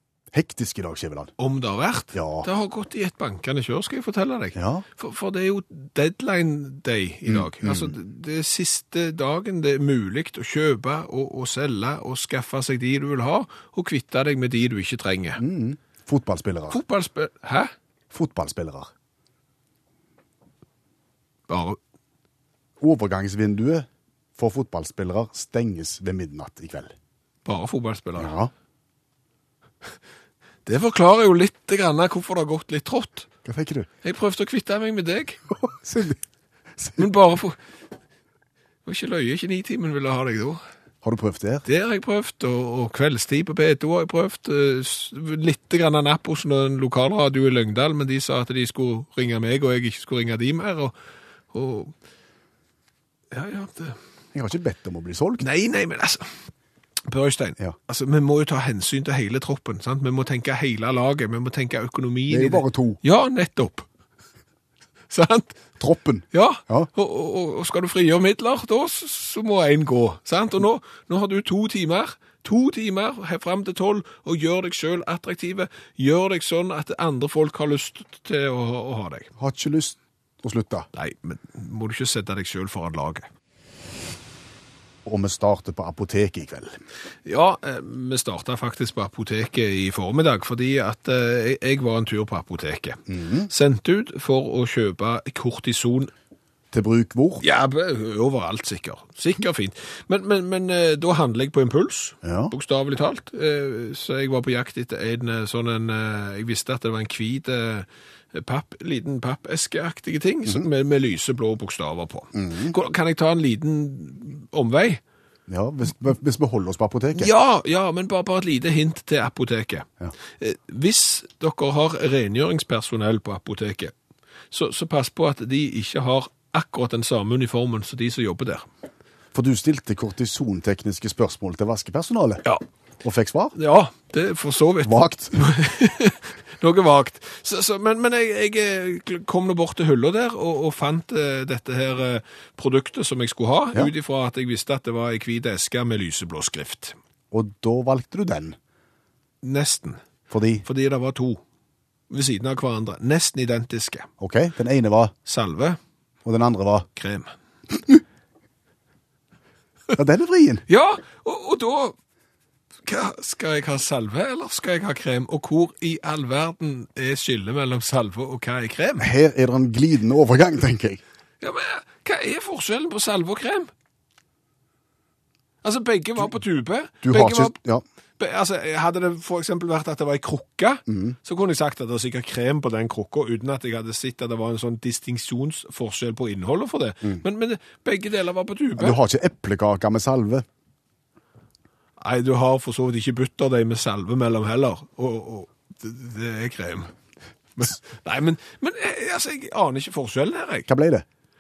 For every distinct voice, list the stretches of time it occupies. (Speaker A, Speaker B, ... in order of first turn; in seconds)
Speaker A: 0.3-1.3, 2.1-2.5, 4.5-4.8, 7.3-8.0, 15.4-16.8, 18.1-18.9, 22.8-26.9, 28.2-28.5, 33.5-33.9, 35.5-36.2, 36.8-37.1, 41.0-41.6, 54.3-55.5, 62.3-63.0, 65.8-66.9, 79.4-80.9, 85.0-86.8, 93.1-93.5, 96.7-97.5, 102.2-102.5, 112.3-112.8, 115.5-117.3, 129.3-132.4, 133.0-133.6, 134.8-135.4, 147.3-148.6, 150.3-150.7, 154.2-155.1, 156.2-156.9, 160.0-160.7, 169.0-171.0, 177.0-177.8, 180.9-181.2, 188.8-190.5, 200.7-201.1
Speaker B: 1.4-15.4, 16.7-17.7, 21.5-21.8, 27.4-28.3, 30.7-33.3, 34.0-35.4, 37.0-37.6, 38.9-40.6, 41.6-50.9, 51.5-51.9, 53.3-54.0, 55.4-56.3, 57.1-63.9, 65.1-65.6, 66.3-79.3, 81.0-83.3, 87.3-96.1, 97.4-115.0, 117.2-119.9, 120.4-123.9, 124.5-128.7, 133.6-147.0, 149.4-150.0, 150.7-151.4, 152.1-154.1, 155.3-155.8, 157.0-157.3, 160.7-162.0, 162.8-169.1, 171.4-173.7, 175.6-177.6, 178.2-189.0, 192.0-196.9, 197.6-200.7